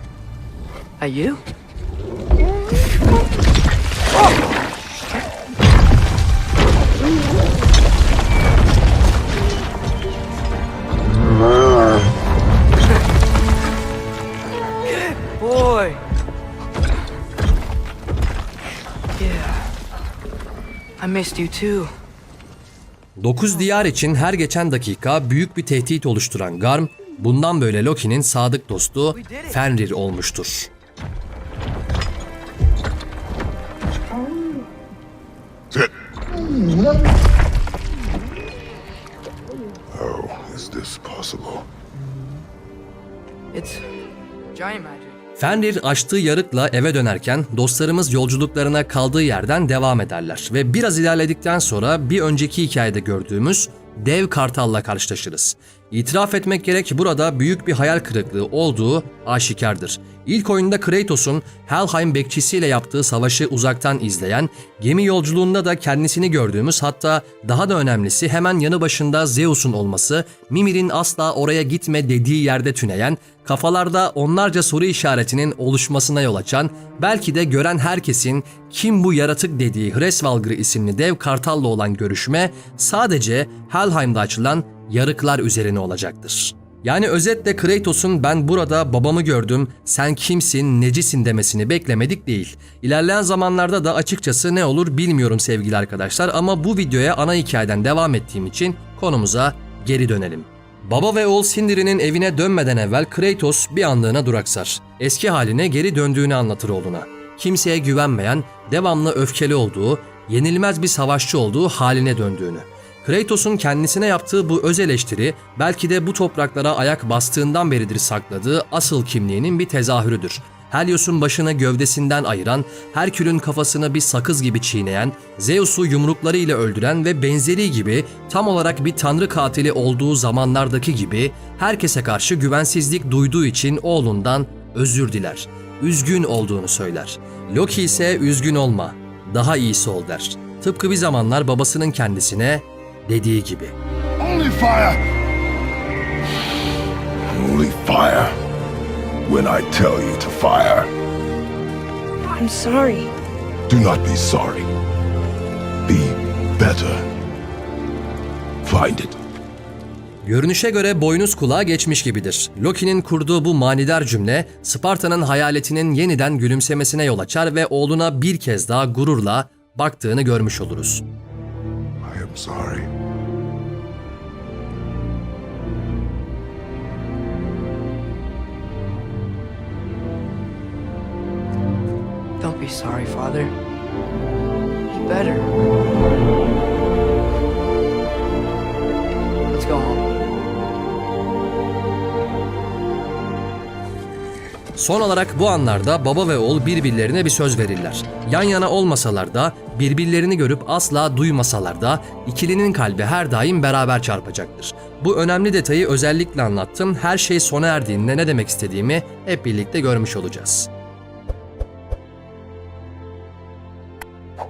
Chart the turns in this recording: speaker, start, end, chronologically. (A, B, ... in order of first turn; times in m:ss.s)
0:01.0-0:01.4 A
0:14.9-0:16.0 A
0:19.2-0:19.6 A
0:21.0-0:21.9 A
0:23.2-0:30.7 B
0:29.2-0:29.5 A
0:39.9-0:41.7 C
0:43.5-0:43.9 A
0:44.5-0:45.2 A
0:45.4-2:23.8 B
2:24.4-2:25.0 C
2:27.3-2:28.4 C
2:29.2-2:30.9 C
2:32.3-2:33.1 A
2:33.7-2:34.7 C
2:35.9-2:37.1 C
2:38.6-2:39.2 C
2:40.2-2:51.0 B
2:52.0-2:52.9 C
3:02.4-3:03.5 A
3:04.9-3:05.5 A
3:09.5-3:10.1 A
3:14.8-3:30.7 B